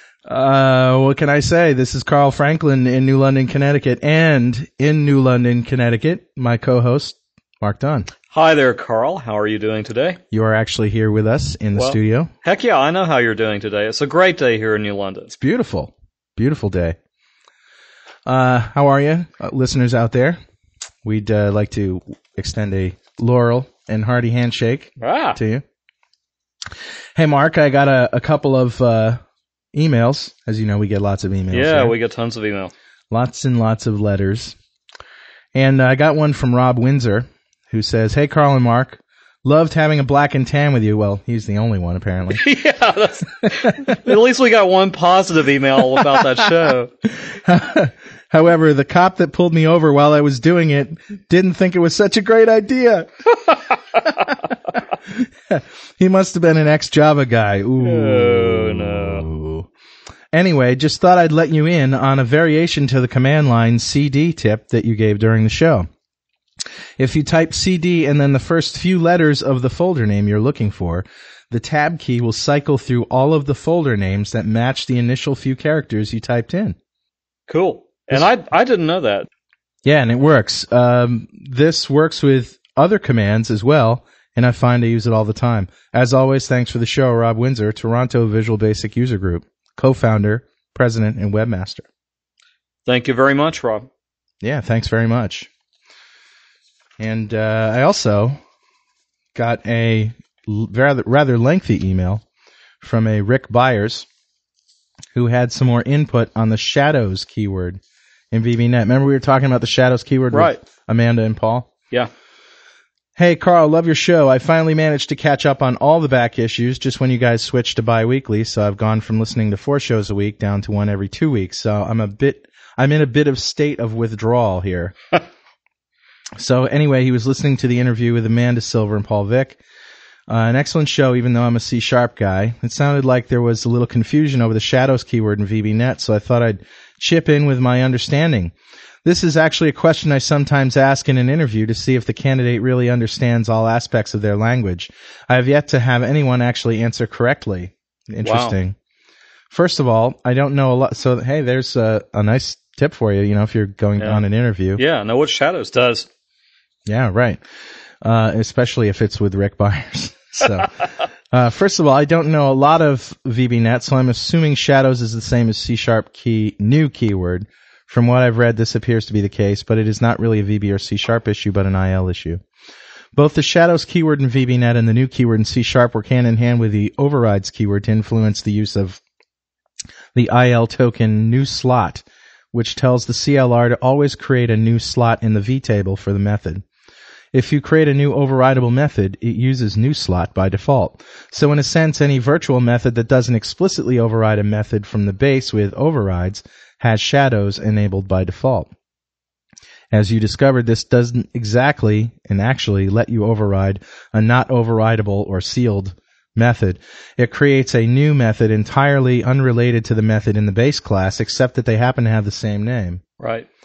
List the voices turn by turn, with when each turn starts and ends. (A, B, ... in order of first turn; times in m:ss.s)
0:00.2-0:08.1 A
0:08.3-0:10.2 B
0:10.3-0:12.3 A
0:11.7-0:15.3 B
0:15.3-0:17.0 A
0:18.2-0:20.4 A
0:21.0-0:25.6 A
0:25.0-0:25.4 B
0:27.1-0:29.2 A
0:29.7-0:31.9 A
0:31.5-0:32.7 B
0:33.1-0:34.6 A
0:35.5-0:42.4 A
0:42.3-0:46.9 B
0:47.1-0:53.1 A
0:55.0-0:59.7 A
0:57.8-0:59.2 B
1:00.3-1:05.9 A
1:07.0-1:16.8 A
1:17.5-1:19.3 B
1:19.8-1:31.8 A
1:32.8-1:33.9 B
1:34.4-1:35.5 A
1:37.0-1:38.4 A
1:39.3-1:42.2 A
1:42.8-1:44.0 A
1:45.1-1:47.8 A
1:48.3-1:51.7 A
1:50.3-1:50.6 B
1:53.2-2:04.9 A
2:06.4-2:09.6 A
2:10.3-2:18.5 A
2:19.0-2:28.8 A
2:28.2-2:28.6 B
2:29.5-2:34.8 A
2:34.8-2:36.1 B
2:36.8-2:37.4 A
2:38.0-2:52.4 A
2:53.1-2:59.0 A
3:00.1-3:06.6 A
3:07.3-3:18.7 A
3:19.9-3:33.0 A
3:33.2-3:33.5 B